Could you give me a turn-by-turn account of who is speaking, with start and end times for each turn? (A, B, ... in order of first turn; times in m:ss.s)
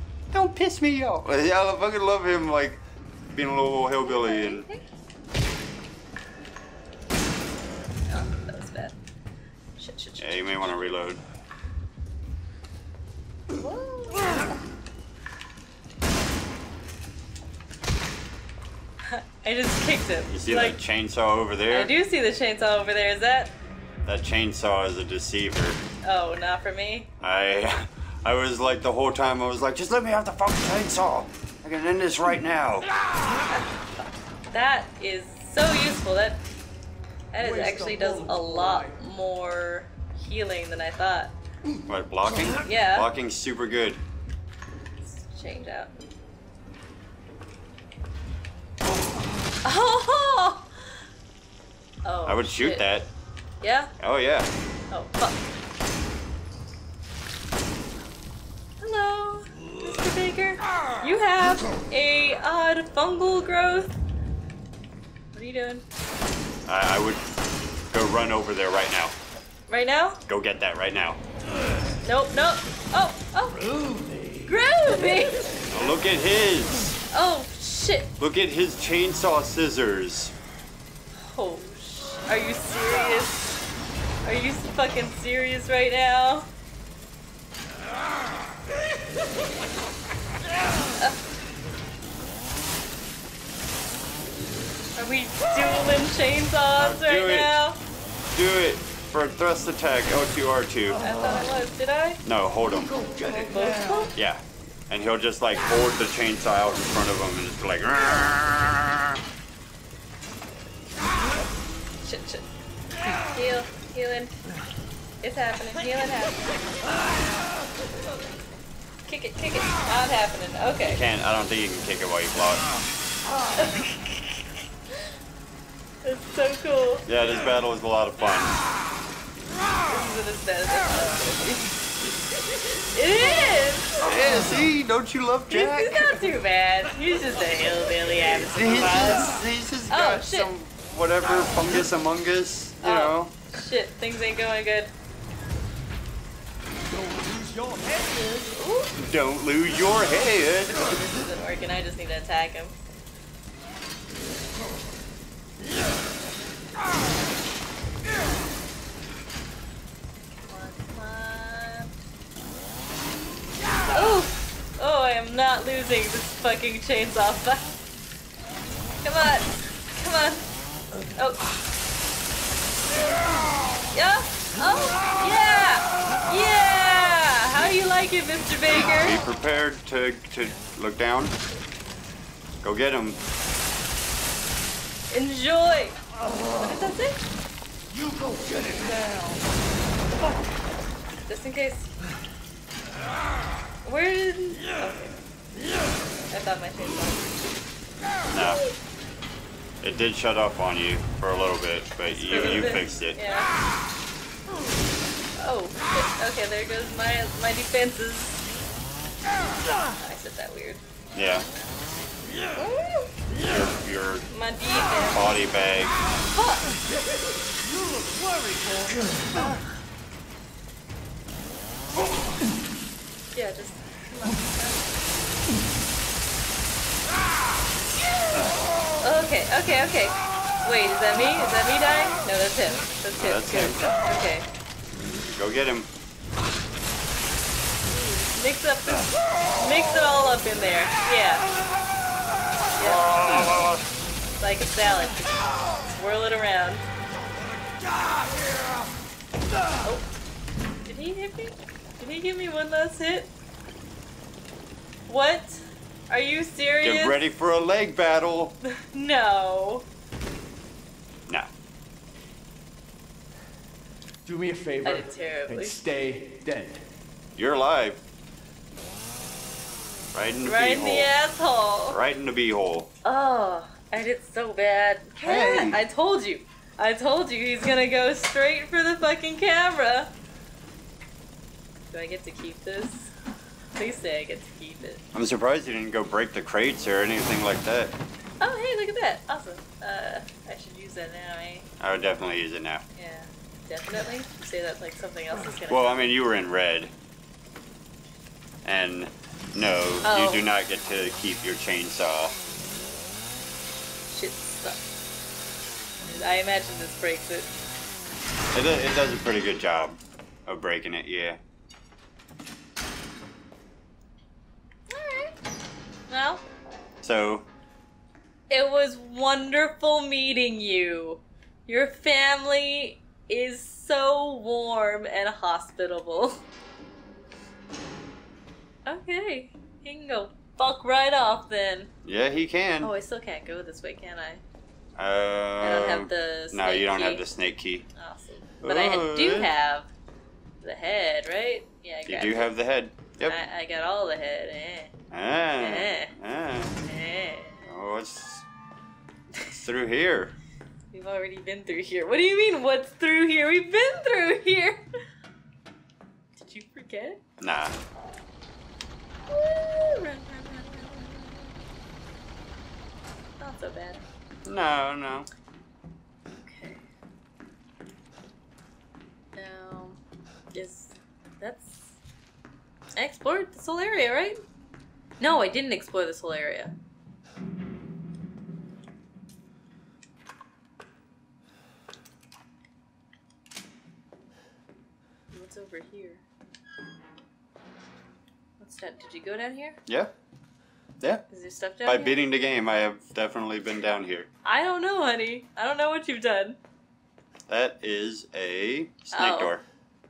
0:00.3-0:02.8 A
0:03.3-0:04.7 A
0:04.0-0:04.8 B
0:08.1-0:08.9 B
0:09.8-0:10.9 B
0:10.2-0:11.2 A
0:13.5-0:14.5 B
0:19.0-0:20.8 B
0:20.3-0:21.9 A
0:21.7-0:23.6 B
0:24.0-0:25.8 A
0:26.0-0:27.1 B
0:27.2-0:32.9 A
0:34.5-0:36.4 B
0:37.3-0:41.3 B
0:37.4-0:38.9 C
0:41.9-0:44.0 A
0:42.6-0:43.1 B
0:45.1-0:46.0 B
0:49.6-0:50.7 B
0:52.0-0:52.8 B
0:52.2-0:53.1 A
0:53.6-0:53.9 B
0:54.0-0:54.5 A
0:54.9-0:55.4 B
0:58.8-1:04.0 B
1:05.3-1:05.8 B
1:06.6-1:07.2 A
1:07.9-1:09.1 A
1:09.7-1:10.2 B
1:10.3-1:11.2 A
1:12.0-1:13.7 B
1:14.4-1:15.6 B
1:15.7-1:17.0 A
1:17.1-1:18.1 B
1:18.2-1:20.3 A
1:21.1-1:23.5 B
1:24.2-1:26.5 B
1:35.0-1:37.8 B
1:36.8-1:37.5 A
1:38.3-1:41.0 A
1:41.0-1:42.2 B
1:42.2-1:43.0 A
1:43.0-1:43.5 C
1:43.2-1:44.1 B
1:44.1-1:49.2 A
1:52.0-1:52.4 B
1:53.2-1:54.3 B
1:55.2-1:56.6 B
1:59.1-2:01.0 B
2:00.8-2:02.7 A
2:03.6-2:04.5 B
2:06.0-2:07.0 B
2:07.0-2:08.6 A
2:09.8-2:11.7 B
2:12.8-2:14.0 B
2:14.0-2:16.2 A
2:15.5-2:19.3 B
2:18.5-2:23.3 A
2:19.9-2:20.5 B
2:22.8-2:24.9 B
2:26.9-2:28.5 C
2:28.5-2:28.9 B
2:29.0-2:30.8 A
2:30.7-2:32.8 B
2:40.5-2:41.9 B
2:43.9-2:47.8 B
2:49.0-2:50.5 B
2:53.9-2:59.2 B
2:59.0-3:01.4 A
3:02.6-3:03.2 A
3:05.1-3:06.0 B
3:06.6-3:07.2 B
3:08.2-3:09.3 C
3:11.3-3:11.9 B
3:13.8-3:15.2 B
3:16.3-3:17.4 B
3:18.3-3:18.6 A
3:18.4-3:18.7 B
3:19.8-3:23.2 A
3:22.1-3:23.5 B
3:25.4-3:28.4 B
3:30.0-3:30.8 B
3:31.1-3:31.5 A
3:32.6-3:33.1 B
3:33.4-3:34.3 A
3:34.3-3:35.4 B
3:35.0-3:36.0 A
3:36.3-3:36.7 B
3:38.0-3:39.0 C
3:43.3-3:44.9 B
3:49.0-3:54.4 B
3:53.2-3:53.9 A
3:55.1-3:55.9 A
3:58.3-4:01.5 B
4:02.7-4:03.7 B
4:02.8-4:03.8 A
4:04.4-4:06.8 B
4:09.8-4:10.1 B
4:10.8-4:13.3 B
4:15.1-4:17.2 B
4:16.8-4:18.6 A
4:18.7-4:19.8 B
4:24.2-4:26.8 C
4:24.8-4:25.8 B
4:27.4-4:28.0 A
4:30.1-4:31.1 A
4:30.4-4:32.0 B
4:31.9-4:32.9 A
4:33.0-4:40.1 B
4:35.2-4:35.8 A
4:41.9-4:43.1 B
4:43.8-4:45.0 B
4:45.1-4:48.0 A
4:48.4-4:51.7 B
4:51.8-4:52.8 A
4:53.0-4:56.1 B
4:55.7-4:56.9 A
4:58.6-5:02.4 A
5:00.0-5:00.4 B
5:04.1-5:04.8 B
5:06.0-5:07.5 B
5:08.5-5:11.4 A
5:14.9-5:15.3 B
5:16.1-5:16.4 B
5:17.0-5:17.5 A
5:18.5-5:26.4 B
5:28.8-5:31.9 B
5:32.0-5:32.9 A
5:32.8-5:34.4 B
5:35.0-5:37.8 A
5:35.6-5:37.2 B
5:37.9-5:39.9 B
5:38.6-5:39.5 A
5:40.6-5:42.5 B
5:42.1-5:43.4 A
5:43.2-5:44.9 B
5:45.1-5:46.7 A
5:45.6-5:46.1 B
5:46.8-5:47.6 B
5:47.6-5:48.4 A
5:49.5-5:50.3 A
5:50.9-5:54.8 B
5:56.4-5:57.2 B
5:57.4-5:57.8 A
5:59.3-6:01.5 B
6:03.4-6:04.0 B
6:04.4-6:05.3 A
6:06.4-6:06.8 B
6:09.4-6:10.0 B
6:10.5-6:11.9 B
6:13.0-6:14.4 B
6:15.2-6:16.7 B
6:25.3-6:26.2 B
6:28.6-6:29.8 B
6:31.3-6:32.2 B
6:31.8-6:34.3 A
6:34.4-6:36.6 B
6:37.5-6:39.6 A
6:39.1-6:39.6 B